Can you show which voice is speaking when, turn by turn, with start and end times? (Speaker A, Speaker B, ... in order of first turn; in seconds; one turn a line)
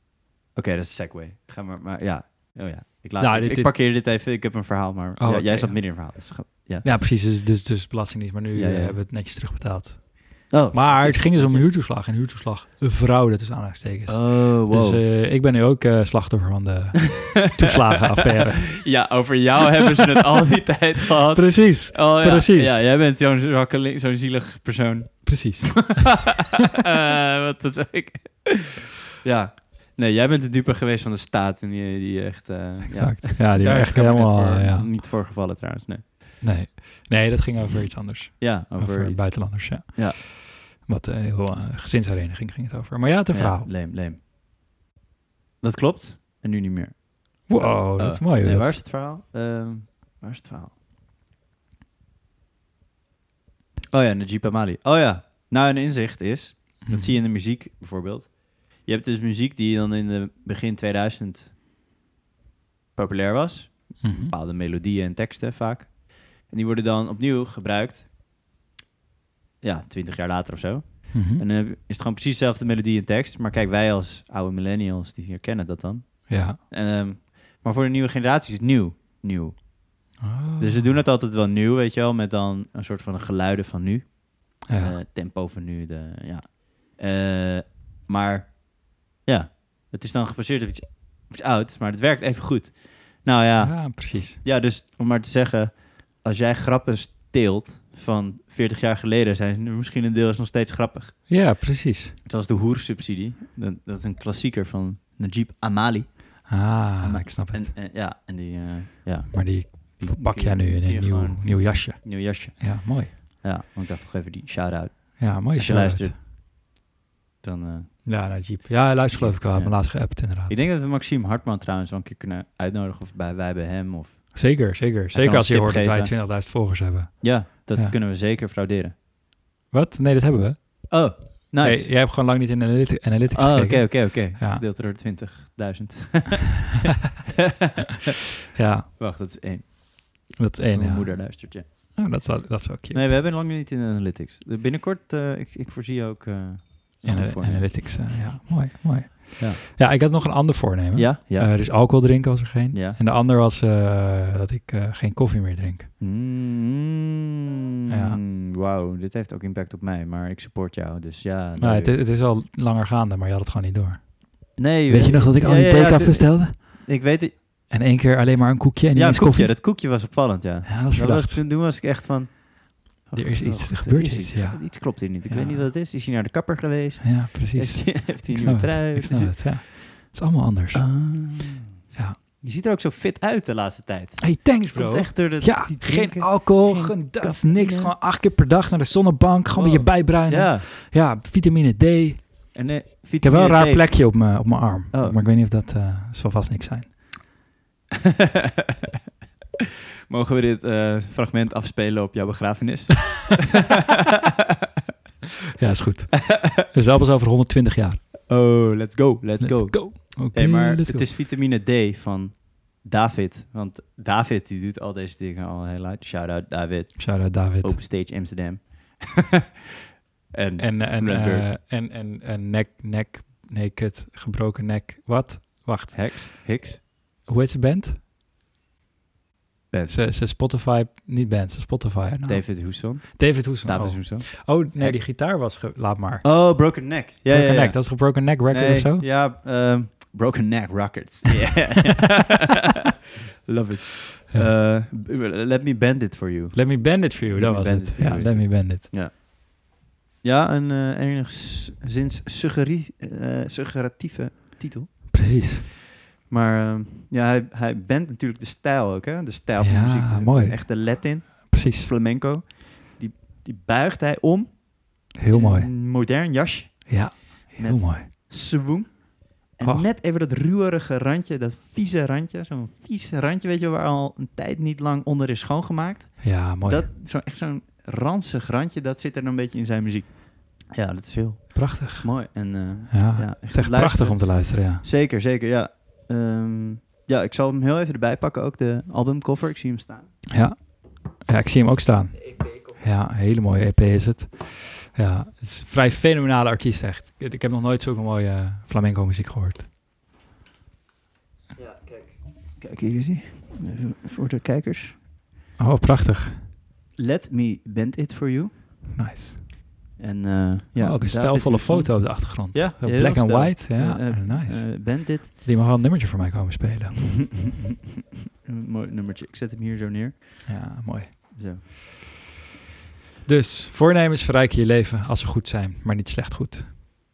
Speaker A: 0.6-6.9
Speaker B: 3.2-3.8
Speaker B: 5.2-6.2
Speaker B: 6.8-19.0
Speaker A: 8.5-9.0
Speaker A: 10.5-11.7
Speaker A: 14.1-15.0
Speaker A: 17.2-17.7
Speaker A: 18.2-36.1
Speaker B: 21.3-22.8
Speaker B: 25.3-26.3
Speaker B: 32.9-34.9
Speaker B: 36.4-43.7
Speaker A: 38.4-40.2
Speaker A: 43.3-44.2
Speaker A: 45.6-50.8
Speaker B: 47.5-48.8
Speaker A: 53.9-61.5
Speaker B: 56.8-57.1
Speaker A: 63.0-68.1
Speaker B: 64.0-64.3
Speaker A: 69.6-79.7
Speaker B: 71.1-71.4
Speaker B: 76.3-76.6
Speaker B: 80.2-80.9
Speaker A: 80.6-101.3
Speaker B: 84.7-85.0
Speaker B: 93.6-94.4
Speaker B: 101.3-102.2
Speaker A: 102.2-116.2
Speaker B: 106.5-107.7
Speaker B: 109.3-113.1
Speaker B: 115.2-116.2
Speaker A: 117.4-118.5
Speaker B: 118.1-120.6
Speaker A: 119.1-126.4
Speaker B: 124.3-128.0
Speaker A: 127.2-128.9
Speaker B: 129.7-134.6
Speaker A: 130.9-131.9
Speaker A: 133.3-138.1
Speaker B: 138.6-138.9
Speaker A: 139.0-142.3
Speaker B: 140.3-143.2
Speaker A: 142.9-148.0
Speaker B: 147.0-155.9
Speaker A: 150.9-152.0
Speaker A: 152.7-153.0
Speaker A: 156.0-157.3
Speaker A: 157.9-162.0
Speaker B: 157.9-158.2
Speaker B: 161.6-166.8
Speaker A: 164.6-167.4
Speaker B: 167.7-169.6
Speaker A: 168.9-179.4
Speaker B: 170.7-171.4
Speaker B: 173.1-175.7
Speaker B: 177.0-181.0
Speaker A: 180.7-187.9
Speaker B: 184.2-192.6
Speaker A: 189.5-190.7
Speaker A: 192.5-195.2
Speaker B: 193.2-197.0
Speaker A: 200.1-204.0
Speaker B: 205.6-208.0
Speaker A: 208.3-219.3
Speaker B: 209.4-211.1
Speaker B: 217.0-217.8
Speaker A: 220.3-221.5
Speaker B: 220.6-226.5
Speaker A: 225.9-226.8
Speaker B: 227.3-228.0
Speaker A: 229.7-230.0
Speaker B: 229.9-239.1
Speaker A: 232.3-235.5
Speaker A: 236.2-242.6
Speaker A: 243.5-255.6
Speaker B: 246.5-248.9
Speaker B: 255.1-255.7
Speaker A: 256.3-290.1
Speaker B: 259.6-261.9
Speaker B: 265.1-265.7
Speaker B: 266.9-268.1
Speaker B: 269.6-269.9
Speaker B: 276.2-276.9
Speaker B: 281.5-284.8
Speaker B: 290.3-299.7
Speaker A: 301.6-305.0
Speaker B: 305.6-306.4
Speaker A: 307.0-308.9
Speaker B: 308.9-309.5
Speaker A: 310.0-315.3
Speaker B: 310.8-317.3
Speaker A: 318.5-320.8
Speaker B: 320.5-321.4
Speaker A: 321.3-321.6
Speaker B: 323.3-326.7